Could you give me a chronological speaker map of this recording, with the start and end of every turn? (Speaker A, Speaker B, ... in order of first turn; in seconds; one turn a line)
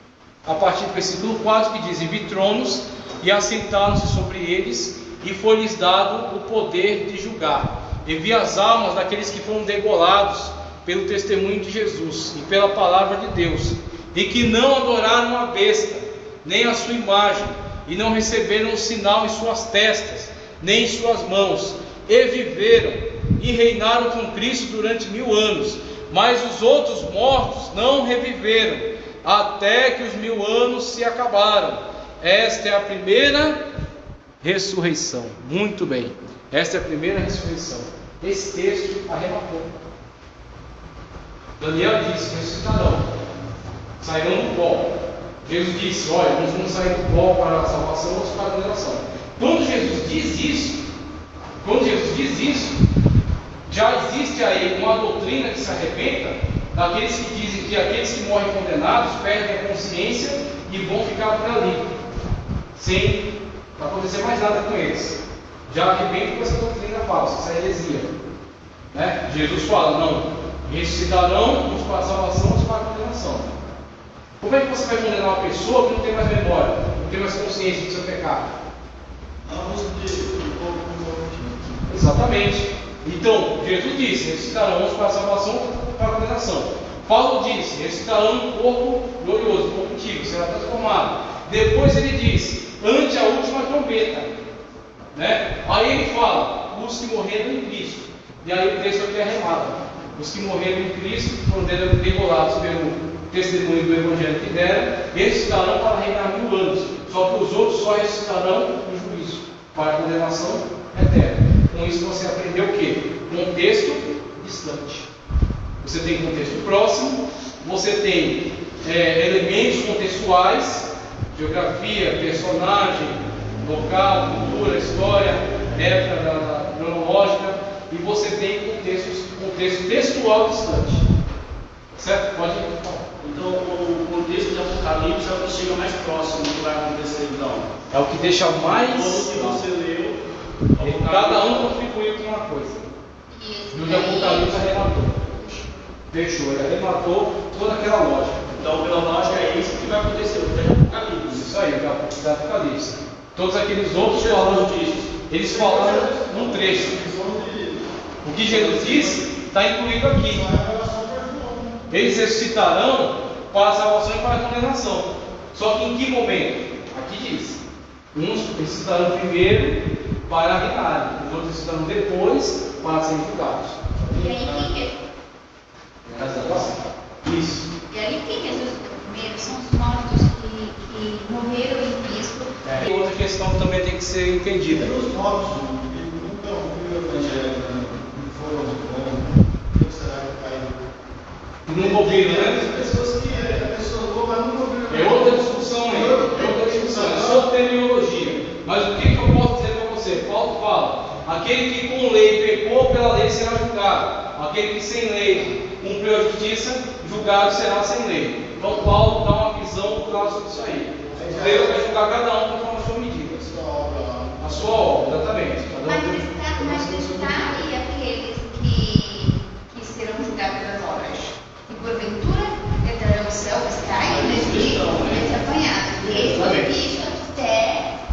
Speaker A: 0.4-33.6
Speaker A: 34.4-39.7
Speaker A: 41.6-43.1
Speaker A: 44.0-50.8
Speaker A: 51.6-52.8
Speaker A: 53.7-61.8
Speaker A: 62.7-68.1
Speaker A: 68.9-73.5
Speaker A: 74.4-78.5
Speaker B: 79.4-82.0
Speaker A: 81.9-94.3
Speaker A: 95.1-115.1
Speaker A: 115.8-131.0
Speaker A: 131.9-133.1
Speaker C: 133.2-137.7
Speaker A: 137.9-139.6
Speaker C: 138.7-140.2
Speaker C: 140.7-141.7
Speaker A: 140.8-142.8
Speaker D: 143.3-145.9
Speaker A: 143.7-145.2
Speaker A: 146.1-148.6
Speaker C: 148.5-151.4
Speaker A: 151.2-154.7
Speaker C: 154.0-155.1
Speaker A: 155.3-157.0
Speaker B: 155.4-157.9
Speaker A: 158.2-160.4
Speaker C: 158.5-159.2
Speaker B: 158.6-158.9
Speaker B: 160.3-161.8
Speaker A: 161.9-167.6
Speaker A: 168.1-174.2
Speaker D: 174.1-174.9
Speaker C: 176.1-176.8
Speaker A: 176.1-177.7
Speaker D: 177.9-182.8
Speaker A: 182.6-184.9
Speaker B: 184.7-190.8
Speaker A: 191.7-192.7
Speaker B: 191.7-197.4
Speaker A: 194.9-213.5
Speaker B: 211.0-211.9
Speaker B: 213.3-214.9
Speaker A: 214.4-217.6
Speaker D: 215.8-227.9
Speaker C: 224.0-226.7